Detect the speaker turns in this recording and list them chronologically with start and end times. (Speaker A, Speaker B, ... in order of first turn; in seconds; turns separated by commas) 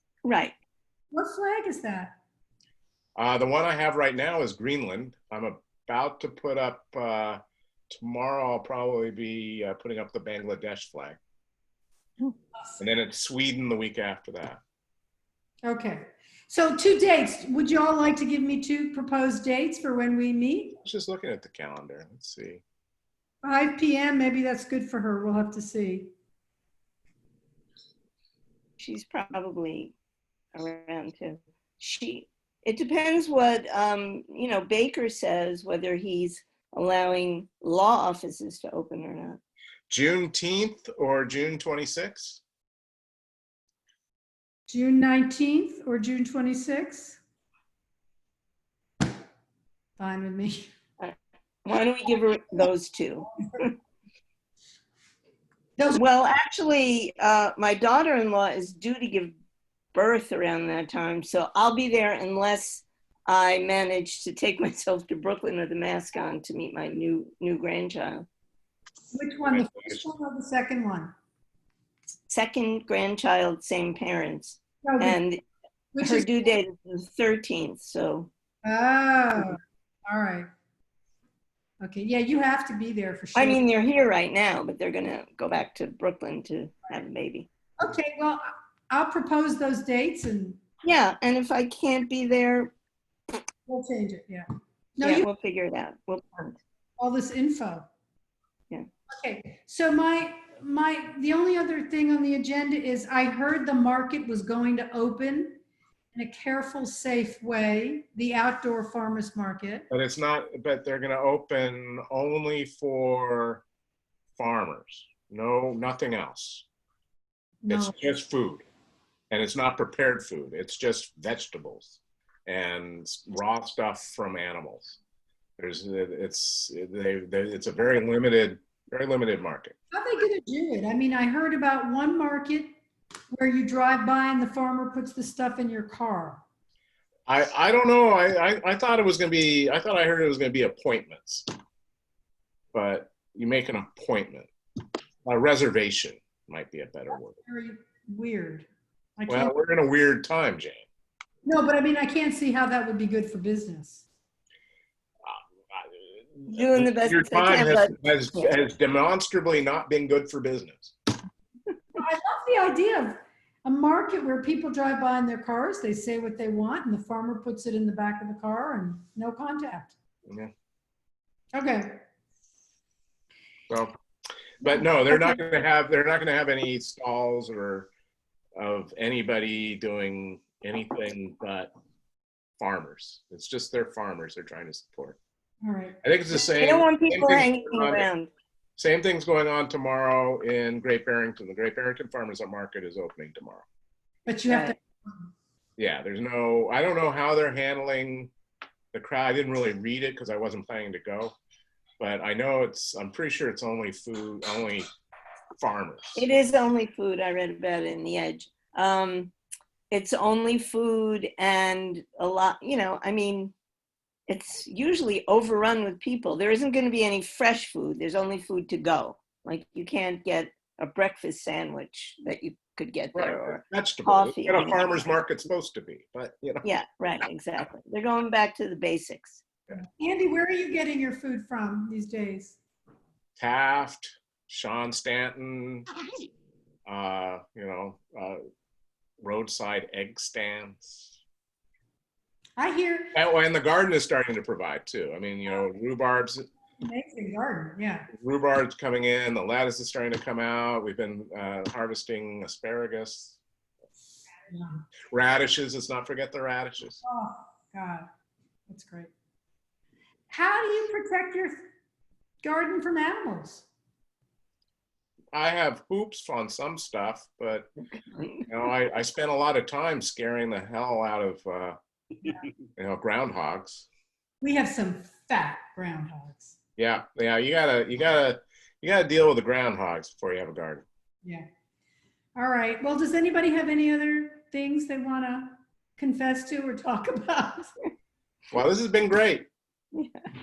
Speaker A: 0.2-0.5, Speaker B: 1.1-2.2, Speaker C: 3.2-7.4, Speaker C: 7.9-11.2, Speaker C: 12.8-14.6, Speaker B: 15.6-20.8, Speaker C: 20.8-22.6, Speaker B: 23.4-26.1, Speaker A: 28.8-29.9, Speaker A: 30.6-39.4, Speaker C: 39.9-42.4, Speaker B: 44.7-47.2, Speaker B: 50.0-50.7, Speaker A: 51.0-53.7, Speaker A: 55.9-59.3, Speaker A: 59.9-68.3, Speaker B: 69.1-71.1, Speaker C: 69.5-70.1, Speaker A: 72.3-75.4, Speaker B: 74.8-75.2, Speaker B: 75.9-76.3, Speaker A: 76.0-78.3, Speaker B: 78.6-80.5, Speaker B: 81.8-83.6, Speaker A: 83.3-87.5, Speaker B: 87.8-90.6, Speaker A: 90.8-92.7, Speaker B: 93.7-95.3, Speaker A: 95.0-96.6, Speaker B: 97.0-97.9, Speaker B: 99.1-105.6, Speaker B: 106.1-109.9, Speaker C: 109.9-113.6, Speaker C: 114.3-116.6, Speaker B: 117.6-117.9, Speaker C: 117.7-118.7, Speaker C: 119.3-125.0, Speaker C: 125.6-129.7, Speaker B: 129.9-132.7, Speaker B: 133.3-136.4, Speaker C: 137.3-141.4, Speaker C: 142.7-144.5, Speaker C: 145.2-147.4, Speaker B: 147.1-149.5, Speaker C: 149.3-150.8, Speaker B: 151.4-154.0, Speaker C: 155.2-160.9, Speaker A: 156.5-158.6, Speaker B: 161.9-169.9, Speaker B: 171.5-172.0, Speaker C: 174.6-177.9, Speaker C: 178.6-181.7, Speaker C: 182.6-185.2, Speaker B: 185.6-186.0, Speaker C: 186.0-188.1, Speaker A: 186.3-188.3, Speaker C: 188.8-193.6, Speaker B: 194.2-195.3, Speaker A: 194.5-194.7, Speaker C: 195.8-198.3, Speaker C: 198.9-201.3, Speaker C: 202.0-204.9, Speaker C: 205.6-206.3, Speaker A: 206.2-209.3, Speaker A: 209.9-213.5, Speaker A: 214.3-225.1, Speaker C: 223.1-226.6, Speaker A: 226.6-229.4, Speaker B: 229.7-232.6, Speaker C: 233.4-235.8, Speaker C: 236.9-238.4, Speaker C: 239.2-241.1, Speaker B: 242.6-243.1, Speaker C: 243.1-246.4, Speaker B: 246.8-248.1, Speaker C: 248.1-253.4, Speaker B: 254.5-254.8, Speaker C: 255.1-257.0, Speaker B: 257.0-258.1, Speaker B: 258.7-259.1, Speaker B: 260.3-261.6, Speaker B: 262.4-263.6, Speaker C: 265.3-267.7, Speaker C: 268.5-271.8, Speaker C: 272.8-273.9, Speaker B: 274.4-276.6, Speaker C: 276.8-280.8, Speaker B: 282.3-287.7, Speaker C: 288.5-289.5